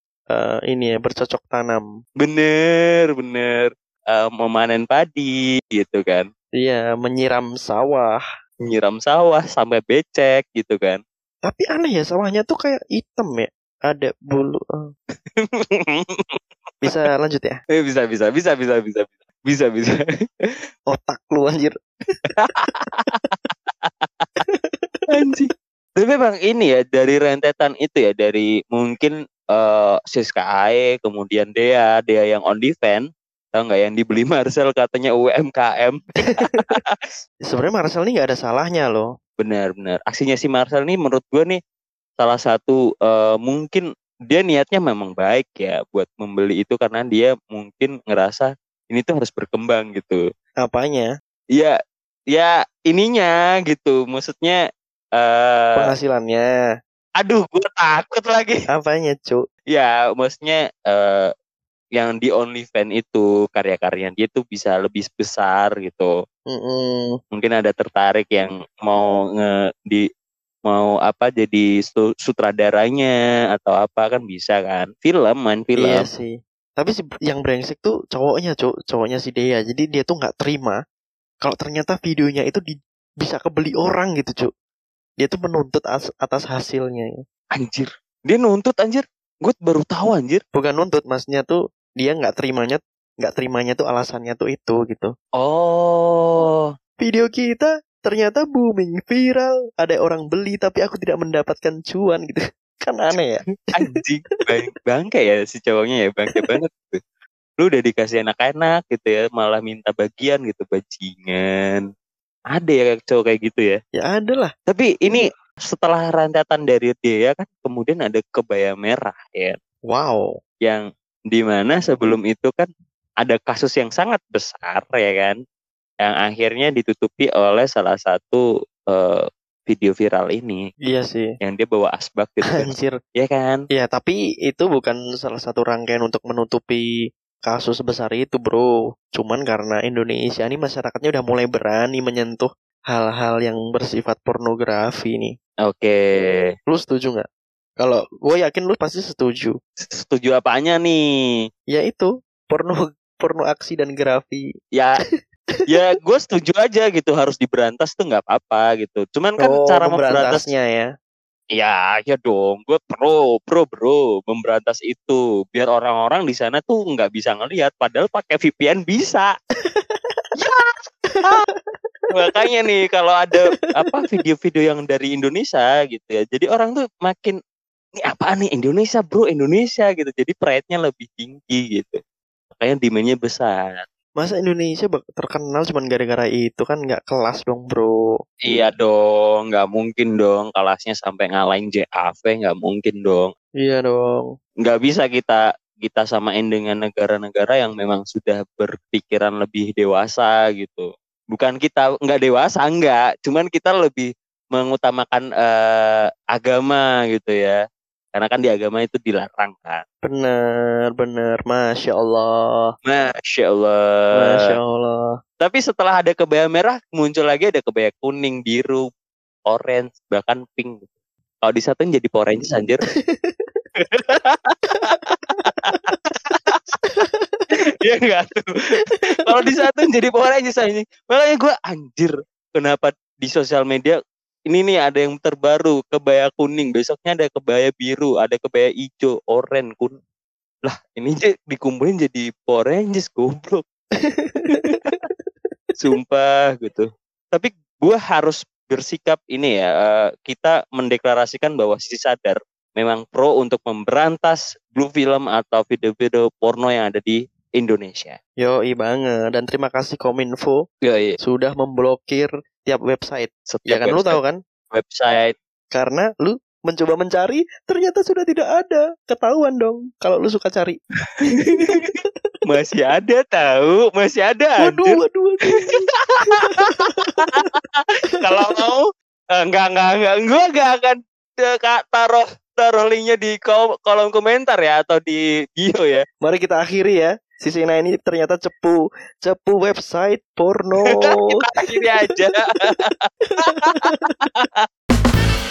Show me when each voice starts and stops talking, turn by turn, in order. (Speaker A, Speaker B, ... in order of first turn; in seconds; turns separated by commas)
Speaker A: 0.3-1.9, Speaker B: 2.2-6.3, Speaker A: 6.6-8.2, Speaker B: 8.6-11.0, Speaker A: 11.4-14.9, Speaker B: 15.3-16.4, Speaker A: 16.8-17.6, Speaker B: 17.7-20.0, Speaker A: 20.9-21.7, Speaker B: 22.5-23.1, Speaker B: 23.8-24.3, Speaker A: 24.4-25.0, Speaker B: 25.1-37.0, Speaker A: 37.5-39.1, Speaker B: 39.4-41.6, Speaker B: 42.2-50.2, Speaker A: 50.6-51.1, Speaker B: 52.3-54.6, Speaker B: 55.2-55.9, Speaker A: 55.7-56.5, Speaker B: 57.2-58.6, Speaker A: 58.7-59.4, Speaker B: 59.7-61.3, Speaker B: 61.9-66.1, Speaker A: 66.5-67.2, Speaker B: 67.3-70.0, Speaker B: 70.7-76.0, Speaker A: 75.8-80.8, Speaker A: 81.4-84.5, Speaker A: 85.2-87.2, Speaker B: 87.5-90.4, Speaker A: 90.5-95.1, Speaker B: 95.4-96.7, Speaker A: 97.0-103.4, Speaker B: 103.7-107.0, Speaker A: 106.3-106.5, Speaker B: 107.6-111.8, Speaker B: 112.5-113.8, Speaker A: 114.0-114.5, Speaker B: 114.7-119.6, Speaker A: 119.9-120.3, Speaker B: 120.6-122.7, Speaker B: 123.2-125.3, Speaker B: 126.0-130.6, Speaker A: 130.9-131.3, Speaker B: 131.4-133.6, Speaker A: 132.5-133.0, Speaker A: 133.7-136.8, Speaker A: 137.4-145.3, Speaker B: 145.6-146.5, Speaker A: 146.7-147.2, Speaker A: 147.8-149.6, Speaker B: 150.0-151.0, Speaker A: 151.7-154.5, Speaker B: 154.7-155.0, Speaker B: 155.7-160.5, Speaker A: 159.4-160.9, Speaker B: 161.5-169.3, Speaker A: 169.7-170.2, Speaker B: 170.4-170.7, Speaker A: 171.1-171.7, Speaker B: 172.1-177.4, Speaker B: 178.0-182.0, Speaker B: 182.6-183.9, Speaker A: 184.2-188.1, Speaker B: 188.4-193.3, Speaker A: 193.6-194.3, Speaker B: 194.6-207.6, Speaker B: 208.1-209.8, Speaker A: 210.0-212.7, Speaker B: 212.8-214.5, Speaker A: 214.1-215.1, Speaker B: 215.4-218.8, Speaker B: 219.5-220.9, Speaker B: 221.4-222.8, Speaker A: 223.1-223.6, Speaker B: 223.9-224.6, Speaker A: 225.4-225.9, Speaker B: 226.3-226.6, Speaker A: 226.8-227.4, Speaker B: 227.8-228.5, Speaker A: 228.9-229.5, Speaker B: 229.2-234.0, Speaker B: 234.5-240.0, Speaker B: 240.6-243.6, Speaker A: 244.0-245.1, Speaker B: 244.5-244.9, Speaker B: 245.8-258.2, Speaker A: 258.4-260.6, Speaker B: 260.8-261.2, Speaker A: 261.2-264.4, Speaker B: 263.5-264.2, Speaker B: 264.7-265.3, Speaker A: 265.7-270.8, Speaker B: 271.4-271.9, Speaker B: 272.5-275.0, Speaker A: 274.6-277.4, Speaker B: 277.1-286.0, Speaker A: 278.2-278.6, Speaker A: 286.2-292.1, Speaker B: 290.8-294.6, Speaker A: 293.3-294.1